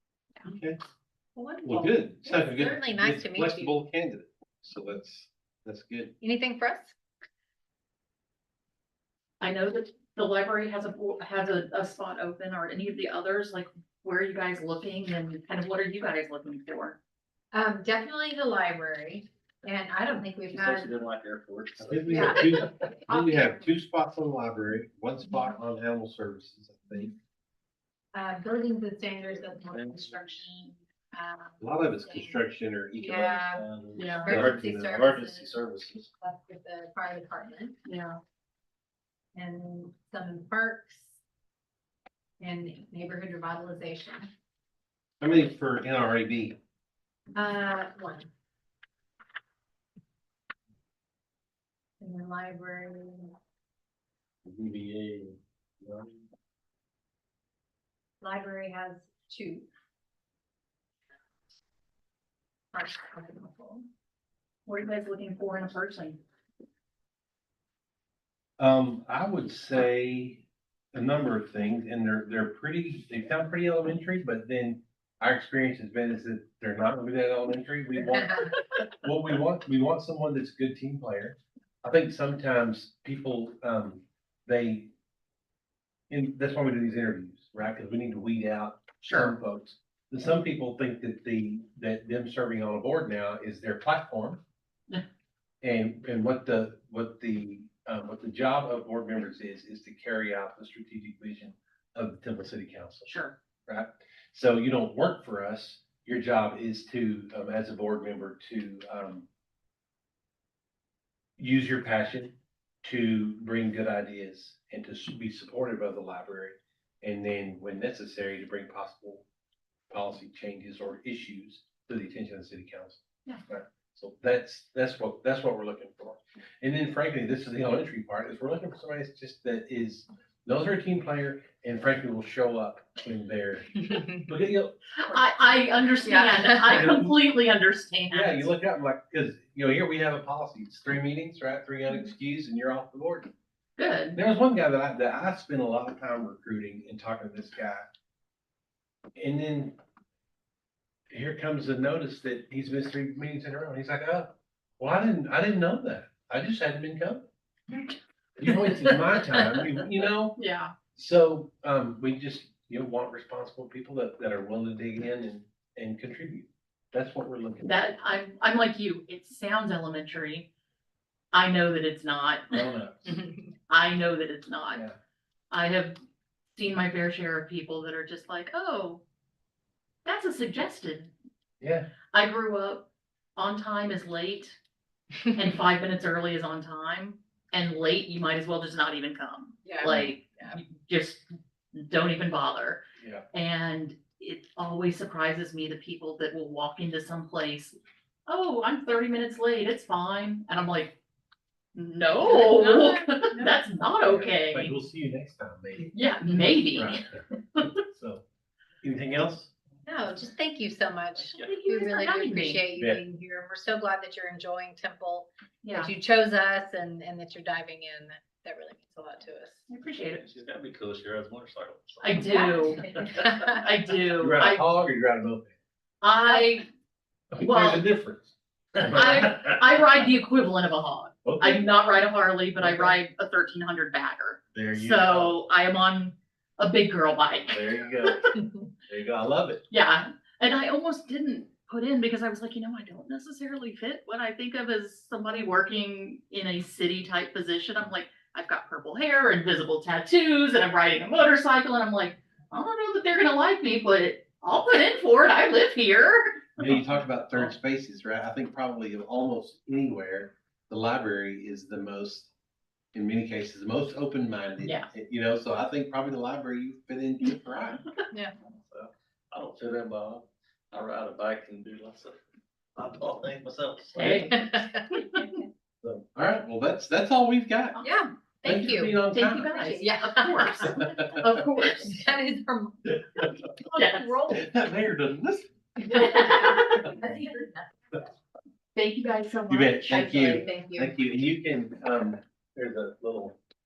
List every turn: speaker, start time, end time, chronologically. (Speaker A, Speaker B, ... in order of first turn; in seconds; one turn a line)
Speaker A: 0.5-0.8
Speaker B: 1.4-3.8
Speaker A: 1.6-6.1
Speaker B: 6.2-7.0
Speaker C: 9.4-17.0
Speaker B: 17.5-20.9
Speaker D: 20.5-22.6
Speaker A: 21.8-27.1
Speaker B: 22.1-23.6
Speaker B: 28.1-32.4
Speaker D: 29.7-30.4
Speaker A: 31.6-33.6
Speaker B: 33.0-35.5
Speaker D: 33.4-34.6
Speaker C: 34.0-34.3
Speaker A: 34.3-36.1
Speaker B: 36.2-37.8
Speaker C: 37.9-38.2
Speaker B: 39.4-41.2
Speaker B: 42.4-44.3
Speaker A: 45.2-46.6
Speaker B: 47.3-48.3
Speaker B: 52.0-53.3
Speaker A: 54.5-56.2
Speaker B: 58.2-59.7
Speaker B: 62.7-63.8
Speaker C: 64.7-66.2
Speaker A: 68.6-84.9
Speaker A: 86.1-94.4
Speaker C: 89.0-89.3
Speaker A: 95.6-103.1
Speaker C: 103.1-103.3
Speaker A: 103.7-109.3
Speaker A: 111.4-119.3
Speaker A: 119.9-135.2
Speaker C: 135.0-138.5
Speaker B: 136.1-136.9
Speaker A: 136.7-137.2
Speaker A: 138.1-143.3
Speaker C: 143.8-144.2
Speaker A: 144.2-147.9
Speaker A: 149.2-149.8
Speaker A: 151.1-157.3
Speaker A: 158.4-160.4
Speaker C: 158.5-159.5
Speaker C: 160.4-160.7
Speaker A: 160.9-167.8
Speaker C: 167.6-170.5
Speaker C: 171.3-172.6
Speaker A: 172.5-173.2
Speaker C: 173.7-174.8
Speaker C: 175.5-176.0
Speaker C: 176.6-179.0
Speaker C: 180.1-181.1
Speaker A: 181.6-181.9
Speaker C: 182.1-184.6
Speaker C: 185.3-192.8
Speaker B: 189.7-190.6
Speaker A: 189.8-190.1
Speaker A: 193.0-193.2
Speaker C: 193.3-197.8
Speaker C: 198.3-201.0
Speaker C: 201.8-204.8
Speaker B: 202.3-203.5
Speaker A: 204.0-205.9
Speaker C: 205.9-207.7
Speaker A: 206.8-207.2
Speaker A: 207.9-208.2
Speaker A: 208.8-209.5
Speaker B: 209.9-219.7
Speaker C: 211.3-212.6
Speaker C: 215.6-215.9
Speaker C: 219.7-220.2
Speaker D: 220.2-223.2
Speaker C: 222.0-222.9
Speaker B: 222.3-223.6
Speaker C: 223.4-224.6
Speaker A: 224.2-225.5
Speaker C: 226.0-226.7
Speaker A: 227.3-229.8
Speaker C: 227.4-227.8
Speaker C: 228.8-238.3
Speaker A: 231.2-231.7
Speaker A: 232.6-233.0
Speaker A: 234.5-235.4
Speaker A: 237.5-239.6
Speaker C: 239.7-257.5
Speaker A: 256.6-262.3
Speaker A: 262.9-267.8
Speaker C: 264.6-264.9
Speaker D: 268.5-272.2
Speaker D: 272.8-274.3
Speaker C: 274.0-275.3
Speaker B: 274.0-275.2
Speaker A: 275.8-277.8
Speaker B: 277.8-281.0
Speaker A: 278.4-279.5
Speaker C: 279.1-282.0
Speaker A: 280.8-281.3
Speaker B: 281.6-282.8
Speaker A: 283.1-283.5
Speaker B: 283.7-284.4
Speaker C: 283.7-284.2
Speaker A: 284.3-285.5
Speaker B: 285.8-287.7
Speaker C: 285.8-287.1
Speaker C: 288.8-290.4
Speaker A: 289.5-293.4
Speaker B: 289.9-290.9